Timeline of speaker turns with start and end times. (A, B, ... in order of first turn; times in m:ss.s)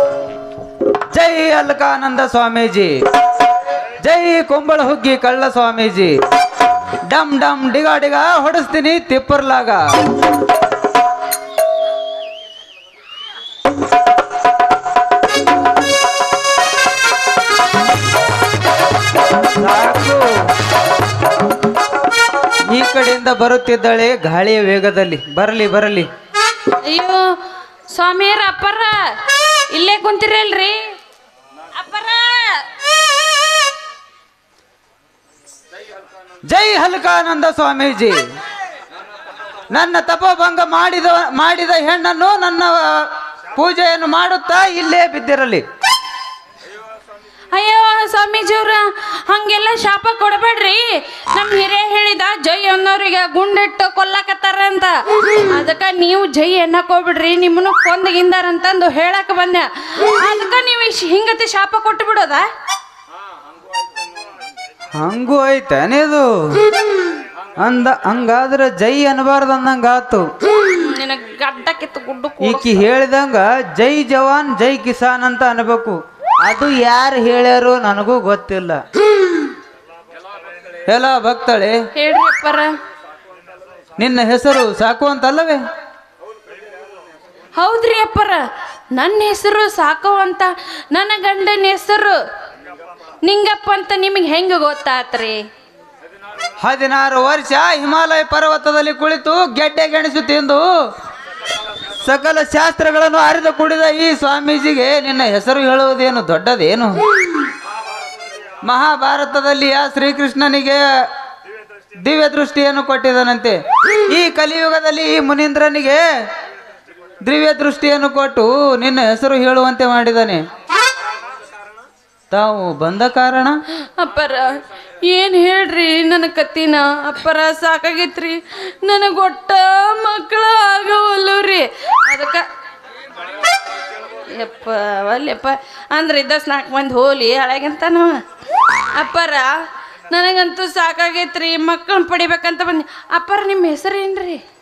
0:01.1-0:02.9 A
0:04.0-0:06.2 A
0:07.1-0:09.9 A
0:19.6-0:20.4 A
0:22.7-0:26.1 A
0:26.8-0:27.3 B
0:27.9-0:29.1 B
0:29.7-0:30.8 B
0:31.7-0:32.6 B
0:36.5-0:38.2 A
0:39.7-0:45.6 A
0:47.5-1:02.4 B
1:04.9-1:06.7 A
1:07.6-1:10.3 A
1:10.6-1:12.8 B
1:12.4-1:18.8 A
1:20.9-1:21.8 A
1:21.9-1:22.7 B
1:24.0-1:25.6 A
1:27.6-1:28.4 B
1:28.9-1:32.2 B
1:33.2-1:35.4 B
1:36.6-1:40.6 A
1:41.9-1:47.0 A
1:48.6-1:50.8 A
1:52.0-1:56.0 A
1:57.2-2:00.4 A
2:02.3-2:03.6 A
2:03.8-2:12.5 B
2:14.3-2:19.6 B
2:20.1-2:24.4 B